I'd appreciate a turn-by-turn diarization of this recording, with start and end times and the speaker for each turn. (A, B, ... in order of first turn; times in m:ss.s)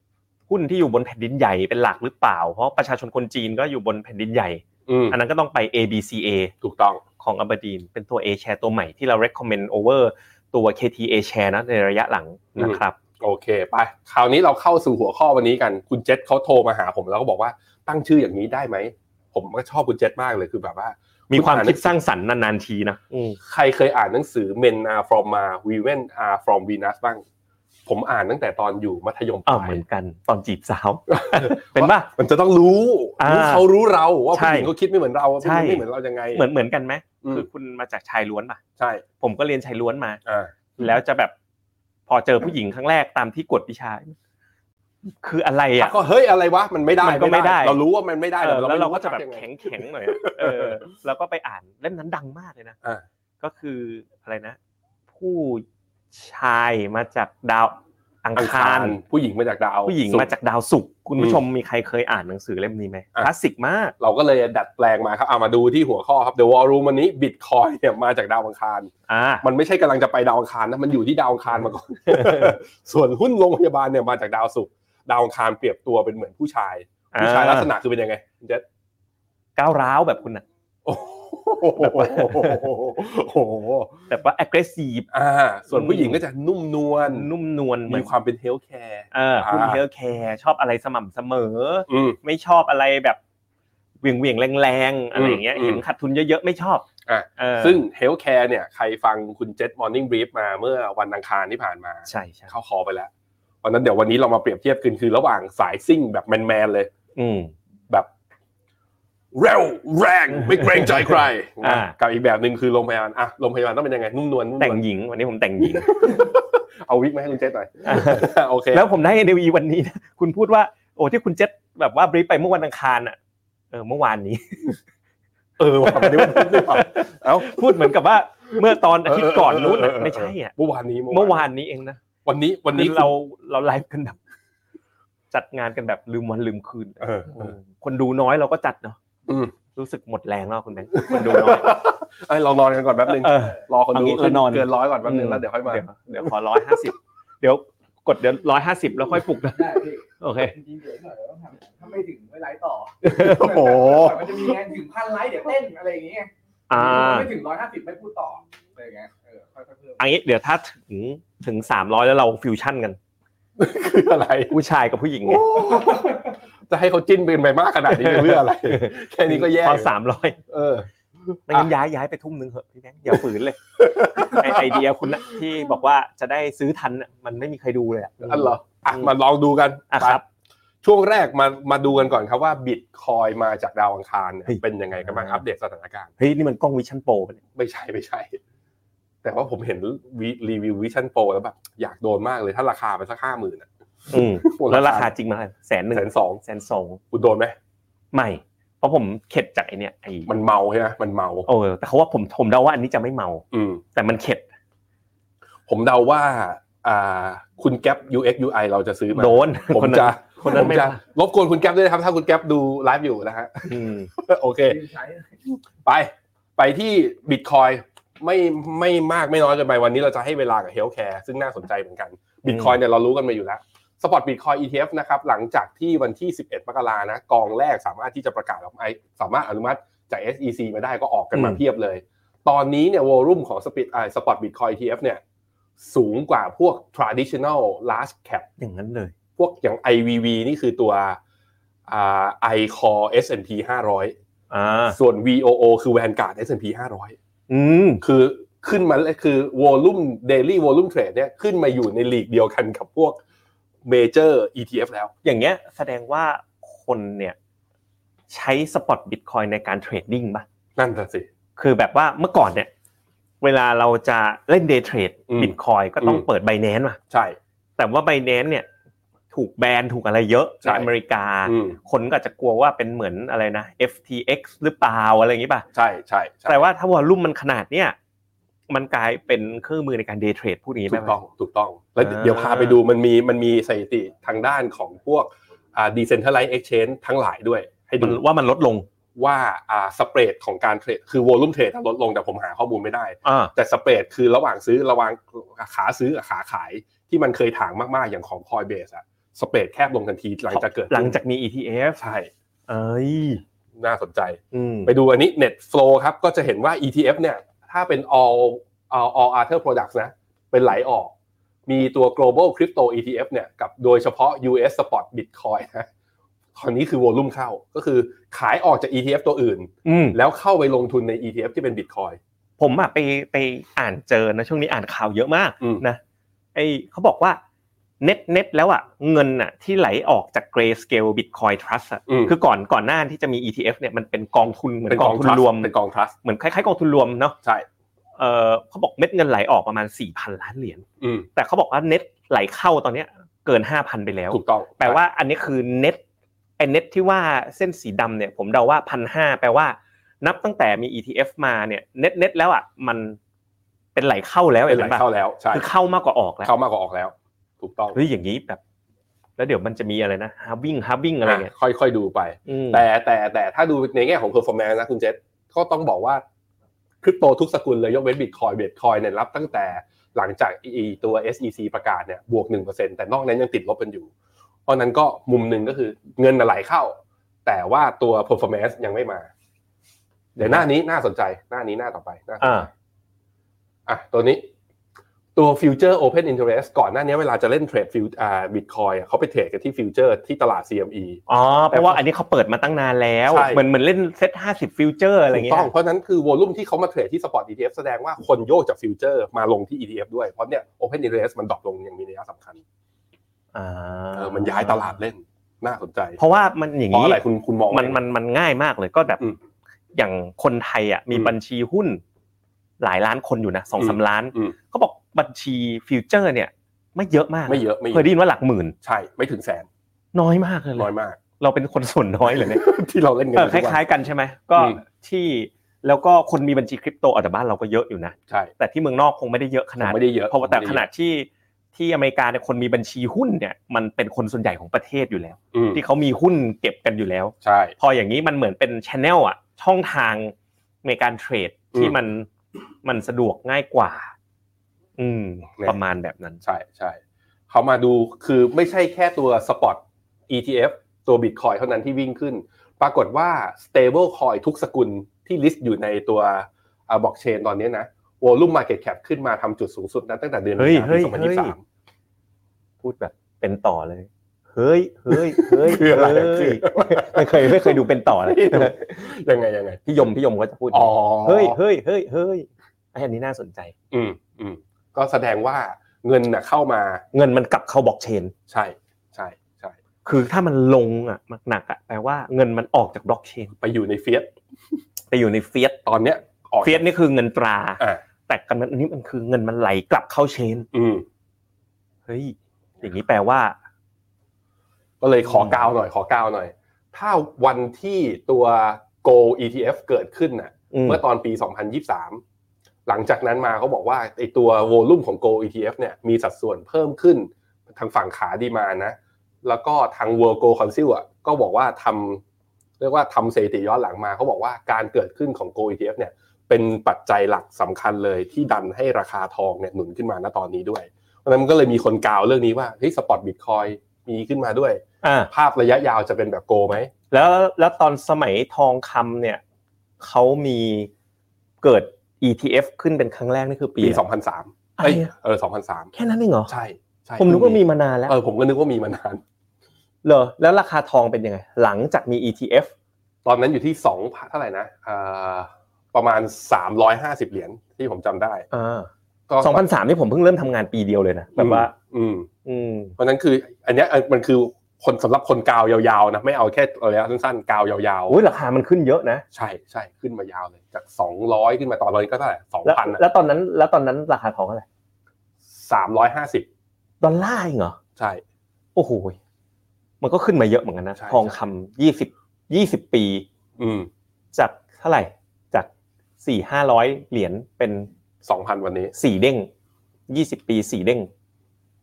0:00.5-0:06.5 A
0:04.9-0:05.2 B
0:06.6-0:07.0 B
0:07.2-0:13.0 A
0:12.6-0:21.9 B
0:21.3-0:23.4 A
0:23.4-0:27.2 B
0:27.8-0:29.8 B
0:29.5-0:32.1 A
0:31.1-0:36.4 B
0:33.2-0:33.6 A
0:34.3-0:34.7 A
0:35.4-0:38.6 A
0:38.8-0:39.0 B
0:39.2-0:40.2 A
0:40.2-0:40.5 B
0:40.8-0:41.3 A
0:42.1-0:44.1 A
0:45.2-0:45.9 A
0:45.8-0:49.5 B
0:47.0-0:47.8 A
0:48.4-0:52.8 A
0:50.1-0:50.8 B
0:53.4-0:54.6 A
0:55.1-0:59.0 A
0:58.4-1:00.3 B
0:59.8-1:03.9 A
1:04.0-1:18.6 B
1:09.1-1:09.4 A
1:12.1-1:12.5 A
1:17.1-1:17.7 A
1:19.6-1:20.4 A
1:20.8-1:24.0 B
1:21.8-1:22.6 A
1:24.1-1:25.1 A
1:25.1-1:27.3 B
1:25.7-1:26.2 A
1:27.1-1:28.1 A
1:27.9-1:29.8 B
1:29.1-1:33.2 A
1:31.9-1:32.2 B
1:34.0-1:36.8 A
1:35.1-1:35.8 B
1:37.0-1:43.1 B
1:37.4-1:37.8 A
1:42.1-1:42.5 A
1:43.6-1:46.9 B
1:47.2-1:47.5 A
1:49.3-1:54.8 B
1:50.3-1:51.9 A
1:54.6-1:56.0 A
1:55.6-1:58.9 B
1:57.8-2:03.2 A
2:03.7-2:04.8 A
2:05.6-2:07.9 B
2:05.8-2:10.5 A
2:08.6-2:11.4 B
2:11.1-2:12.0 A
2:12.2-2:13.1 B
2:12.7-2:14.2 A
2:15.3-2:19.0 A
2:17.0-2:17.5 B
2:19.3-2:19.5 B
2:19.7-2:21.8 A
2:20.9-2:26.8 B
2:23.1-2:30.5 A
2:29.5-2:40.0 C
2:33.0-2:34.0 A
2:33.2-2:34.3 B
2:36.7-2:37.3 A
2:40.0-2:43.0 A
2:43.6-2:44.5 B
2:44.5-2:45.6 A
2:45.2-2:49.9 B
2:47.9-2:50.4 A
2:50.5-2:50.9 B
2:51.5-2:59.1 A
2:53.8-2:55.3 B
2:58.2-3:00.2 B
2:59.9-3:00.2 A
3:00.8-3:06.1 B
3:04.5-3:05.4 A
3:06.2-3:07.4 A
3:07.6-3:08.4 B
3:09.2-3:15.1 B
3:14.1-3:17.0 A
3:15.9-3:16.4 B
3:17.1-3:17.5 B
3:18.1-3:20.3 A
3:20.2-3:21.5 B
3:21.4-3:24.4 A
3:23.5-3:23.8 B
3:25.7-3:34.8 B
3:29.1-3:31.0 A
3:33.6-3:34.1 A
3:34.7-3:35.3 C
3:35.7-3:55.2 B
3:42.4-3:42.8 A
3:51.3-3:51.6 A
3:55.8-3:58.5 B
3:58.6-3:59.1 A
3:59.4-4:01.2 B
4:01.9-4:04.1 B
4:04.5-4:05.0 A
4:04.9-4:07.2 B
4:07.5-4:08.0 A
4:08.0-4:13.2 B
4:13.8-4:15.1 B
4:15.2-4:17.4 A
4:18.3-4:20.4 A
4:20.8-4:21.3 B
4:21.6-4:22.7 A
4:23.4-4:27.0 A
4:25.3-4:26.2 B
4:27.1-4:27.4 B
4:27.8-4:28.7 A
4:29.3-4:35.6 A
4:30.6-4:30.9 B
4:31.4-4:31.8 B
4:35.7-4:36.7 B
4:36.5-4:38.0 A
4:38.7-4:41.2 A
4:40.9-4:48.2 B
4:42.0-4:42.8 A
4:48.0-4:48.8 A
4:49.2-5:01.1 B
4:53.2-4:53.5 A
5:00.5-5:02.0 A
5:02.0-5:02.3 B
5:02.7-5:03.4 A
5:03.8-5:11.1 B
5:04.5-5:04.9 A
5:11.7-5:15.9 B
5:16.6-5:22.2 B
5:19.8-5:20.2 A
5:22.6-5:26.0 A
5:26.5-5:27.4 A
5:28.0-5:35.7 A
5:32.1-5:32.3 B
5:34.9-5:36.1 B
5:36.2-5:37.4 A
5:38.2-5:40.8 A
5:41.0-5:41.3 B
5:41.3-5:46.0 A
5:44.3-5:45.0 B
5:46.6-5:53.2 A
5:53.9-5:56.5 A
5:54.7-5:55.6 B
5:56.4-5:58.0 B
5:57.9-5:58.6 A
5:59.4-6:01.5 A
6:01.2-6:06.2 B
6:02.5-6:02.8 A
6:07.0-6:14.1 B
6:14.7-6:19.3 B
6:20.4-6:22.7 B
6:22.4-6:22.7 A
6:23.9-6:24.5 B
6:25.4-6:32.0 B
6:31.3-6:35.7 A
6:33.3-6:33.6 B
6:35.3-6:42.6 B
6:43.5-6:45.0 A
6:44.1-6:46.2 B
6:46.2-6:49.2 A
6:46.9-6:48.0 B
6:49.9-6:52.0 A
6:52.8-6:58.7 A
6:53.8-6:54.5 B
6:57.5-6:58.1 B
6:58.8-6:59.7 B
7:00.1-7:02.6 A
7:00.8-7:01.2 B
7:02.3-7:03.8 B
7:03.3-7:22.3 A
7:04.6-7:04.8 B
7:09.8-7:10.8 B
7:15.5-7:15.8 B
7:17.4-7:17.7 B
7:22.8-7:24.1 A
7:25.0-7:26.4 A
7:26.4-7:27.0 B
7:27.5-7:41.6 B
7:40.6-7:41.5 A
7:42.8-7:49.0 A
7:45.1-7:49.8 B
7:49.8-7:53.7 A
7:50.7-7:51.6 B
7:53.9-7:57.0 B
7:57.1-7:58.3 A
7:58.5-7:59.8 B
8:00.0-8:03.5 A
8:03.6-8:04.3 B
8:05.1-8:05.8 A
8:05.8-8:06.8 B
8:06.6-8:10.7 A
8:10.7-8:11.0 B
8:12.1-8:13.6 A
8:15.0-8:22.2 B
8:15.2-8:15.6 A
8:20.7-8:21.0 A
8:22.8-8:32.2 B
8:32.8-8:46.9 B
8:45.0-8:45.3 A
8:47.1-8:49.4 A
8:50.0-8:50.9 A
8:51.6-8:54.0 A
8:53.8-8:55.9 B
8:54.8-8:55.1 A
8:55.9-8:56.5 A
8:56.5-8:59.2 B
8:57.2-8:58.1 A
9:00.0-9:02.7 A
9:03.2-9:08.5 B
9:08.5-9:08.9 A
9:09.3-9:09.6 B
9:09.4-9:11.7 A
9:11.4-9:12.3 B
9:12.4-9:13.0 A
9:13.0-9:18.2 B
9:18.1-9:19.2 A
9:19.3-9:23.0 B
9:22.6-9:24.6 A
9:25.5-9:26.4 B
9:27.0-9:27.8 A
9:28.0-9:28.2 B
9:28.7-9:29.2 A
9:30.0-9:33.2 A
9:31.0-9:31.4 B
9:33.6-9:33.9 B
9:34.3-9:35.7 A
9:36.2-9:37.9 A
9:38.2-9:38.9 B
9:38.9-9:39.5 A
9:40.1-9:41.1 A